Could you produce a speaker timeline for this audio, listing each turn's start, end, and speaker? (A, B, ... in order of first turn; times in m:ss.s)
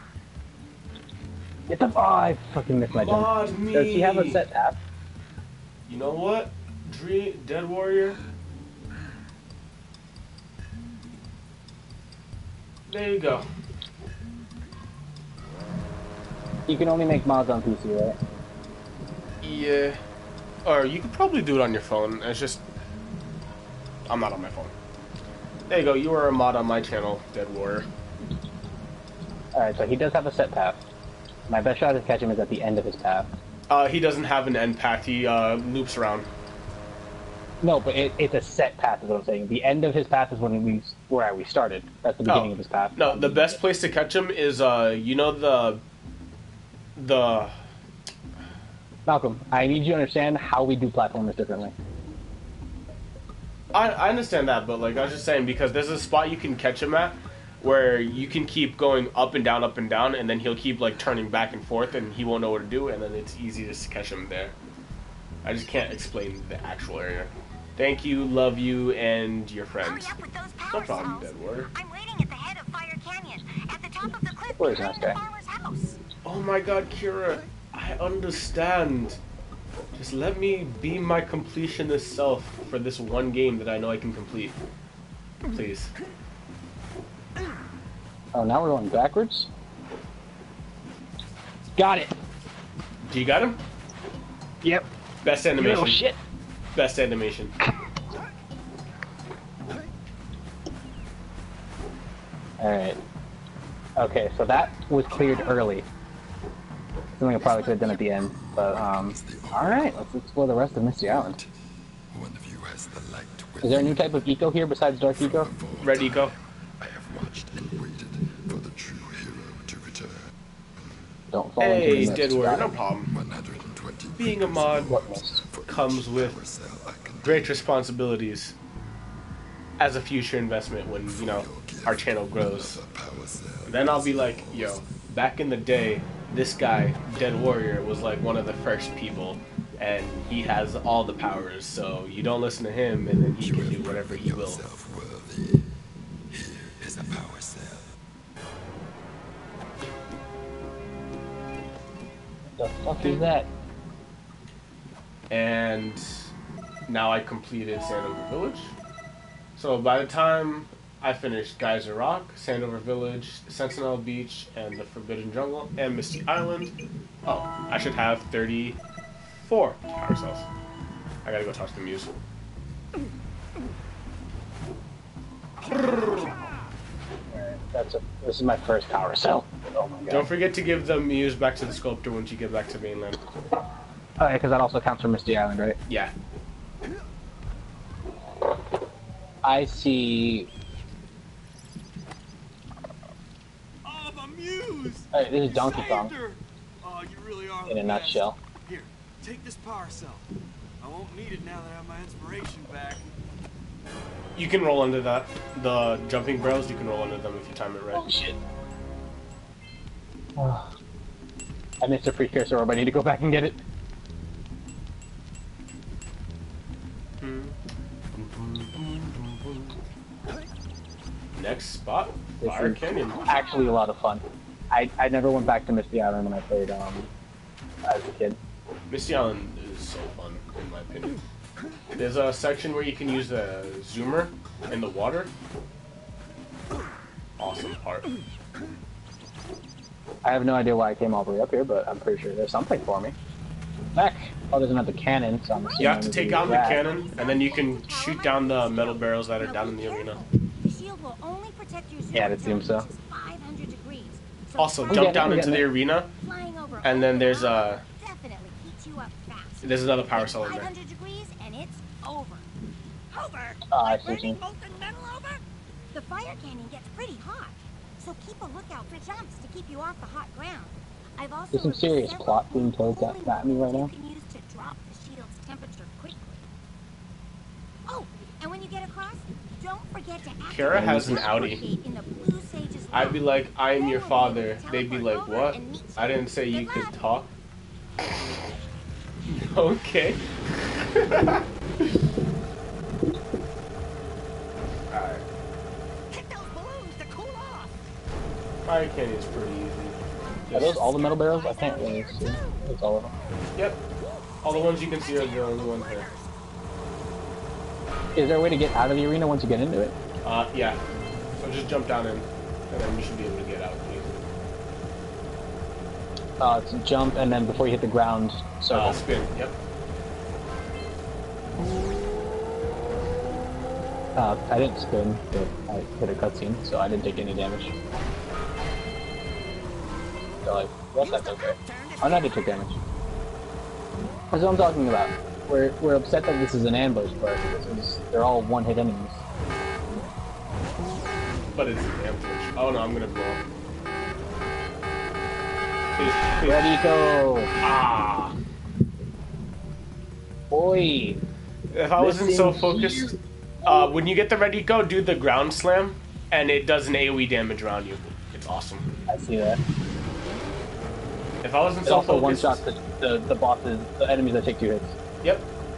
0:01.7-0:04.8 A
0:02.9-0:04.4 B
0:05.9-0:08.2 B
0:12.9-0:13.4 B
0:16.7-0:18.2 A
0:19.4-0:20.0 B
0:20.6-0:22.6 B
0:24.1-0:24.7 B
0:25.7-0:27.9 B
0:29.5-0:30.8 A
0:31.5-0:33.3 A
0:33.7-0:36.3 B
0:37.6-0:43.6 A
0:42.3-0:45.8 B
0:47.0-0:47.6 B
0:49.0-0:51.7 A
0:53.7-1:04.6 B
1:05.4-1:10.2 B
1:09.8-1:16.0 C
1:10.7-1:11.7 B
1:14.5-1:15.2 A
1:16.2-1:19.2 B
1:19.9-1:24.6 B
1:25.5-1:25.9 B
1:28.3-1:29.5 A
1:31.8-1:32.1 A
1:33.0-1:33.6 B
1:34.6-1:34.9 A
1:35.2-1:36.0 B
1:35.6-1:36.2 A
1:36.7-1:37.5 B
1:42.6-1:43.0 A
1:44.0-1:45.8 A
1:47.1-1:51.4 A
1:47.4-1:50.1 D
1:51.0-1:51.5 D
1:52.1-1:54.1 D
1:53.6-1:55.5 A
1:55.2-2:00.3 D
1:55.8-1:56.3 B
2:01.3-2:02.7 A
2:01.6-2:03.1 B
2:03.0-2:07.6 D
2:04.1-2:05.0 B
2:04.8-2:05.4 A
2:05.6-2:06.4 B
2:07.2-2:08.5 B
2:09.8-2:12.8 B
2:11.0-2:14.9 D
2:13.6-2:24.6 B
2:23.4-2:25.7 D
2:26.3-2:27.9 D
2:32.6-2:33.5 A
2:35.3-2:36.3 B
2:36.9-2:38.7 B
2:39.6-2:46.7 B
2:47.2-2:50.5 B
2:51.2-2:52.1 B
2:57.3-3:00.3 A
3:00.1-3:03.2 B
3:04.2-3:05.8 A
3:05.9-3:06.1 B
3:09.4-3:10.5 A
3:13.8-3:20.3 E
3:15.1-3:16.1 A
3:17.6-3:18.4 A
3:20.8-3:23.0 E
3:24.3-3:28.1 B
3:27.9-3:28.4 A
3:30.4-3:30.7 A
3:31.8-3:33.6 A
3:37.2-3:37.5 B
3:38.1-3:39.7 B
3:41.3-3:43.2 B
3:42.4-3:47.1 A
3:47.8-3:48.4 A
3:48.9-3:51.2 B
3:52.0-3:55.3 B
3:57.4-3:58.1 B
4:00.2-4:03.2 A
4:03.9-4:06.8 A
4:05.8-4:10.2 B
4:06.6-4:15.6 C
4:12.1-4:12.9 A
4:14.6-4:16.1 B
4:14.9-4:15.6 A
4:16.2-4:22.5 C
4:16.8-4:17.8 B
4:19.6-4:20.7 B
4:23.1-4:25.4 C
4:23.7-4:24.4 A
4:25.9-4:36.4 C
4:31.5-4:33.9 A
4:37.9-4:47.2 C
4:40.4-4:41.6 B
4:40.7-4:41.5 A
4:42.9-4:47.3 B
4:49.2-4:52.0 B
4:54.9-4:55.2 B
4:56.1-4:57.8 C
4:58.6-5:00.8 B
5:00.5-5:03.1 A
5:00.6-5:02.7 C
5:03.5-5:03.8 B
5:04.0-5:06.3 C
5:04.4-5:06.1 B
5:08.1-5:09.9 A
5:10.2-5:10.8 B
5:11.4-5:14.1 B
5:16.4-5:19.0 A
5:18.7-5:19.6 B
5:24.1-5:27.7 A
5:30.4-5:32.8 A
5:31.0-5:32.4 C
5:34.3-5:39.2 A
5:41.5-5:43.4 B
5:46.0-5:46.7 B
5:46.4-5:47.5 A
5:47.6-5:48.3 B
5:50.5-5:51.2 A
5:51.7-5:58.8 B
5:52.0-5:53.9 A
5:59.1-5:59.6 A
6:01.4-6:02.6 B
6:01.8-6:05.0 A
6:05.2-6:05.5 B